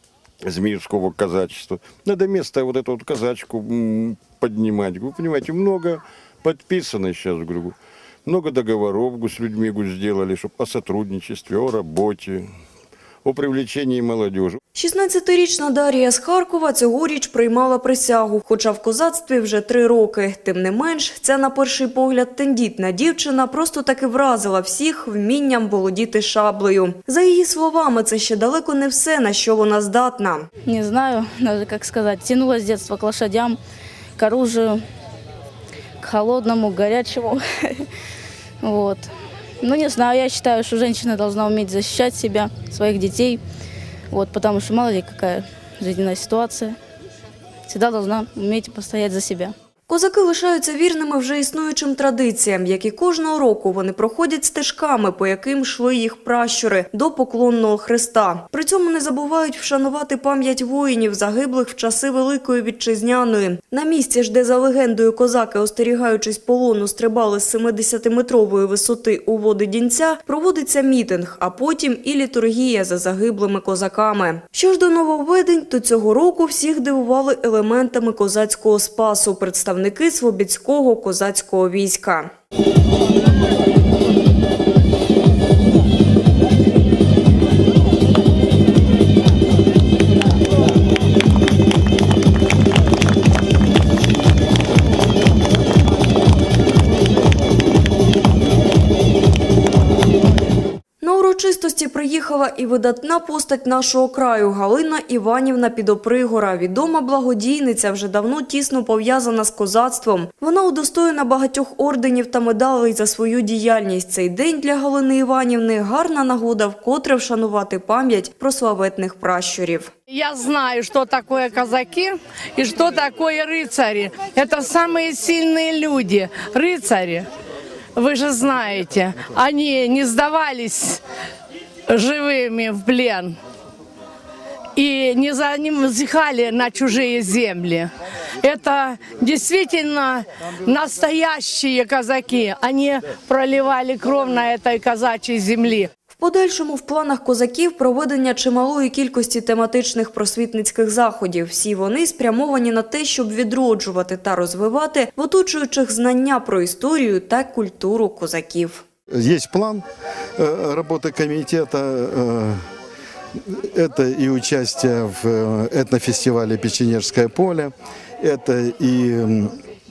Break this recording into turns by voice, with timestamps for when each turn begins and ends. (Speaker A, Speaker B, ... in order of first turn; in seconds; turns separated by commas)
Speaker A: 0.4-12.5, Speaker A: 13.2-14.6, Speaker B: 14.7-30.5, Speaker C: 30.6-33.6, Speaker C: 34.2-34.8, Speaker C: 36.0-37.9, Speaker C: 38.6-39.1, Speaker C: 39.6-43.4, Speaker C: 44.1-46.8, Speaker C: 47.7-49.5, Speaker B: 49.9-82.3, Speaker B: 101.0-119.9, Speaker D: 120.1-127.3, Speaker D: 128.0-131.0, Speaker D: 131.9-133.4, Speaker D: 134.8-137.9, Speaker D: 138.4-145.9, Speaker B: 146.1-158.8, Speaker E: 159.1-159.8, Speaker E: 160.4-162.6, Speaker E: 163.4-169.5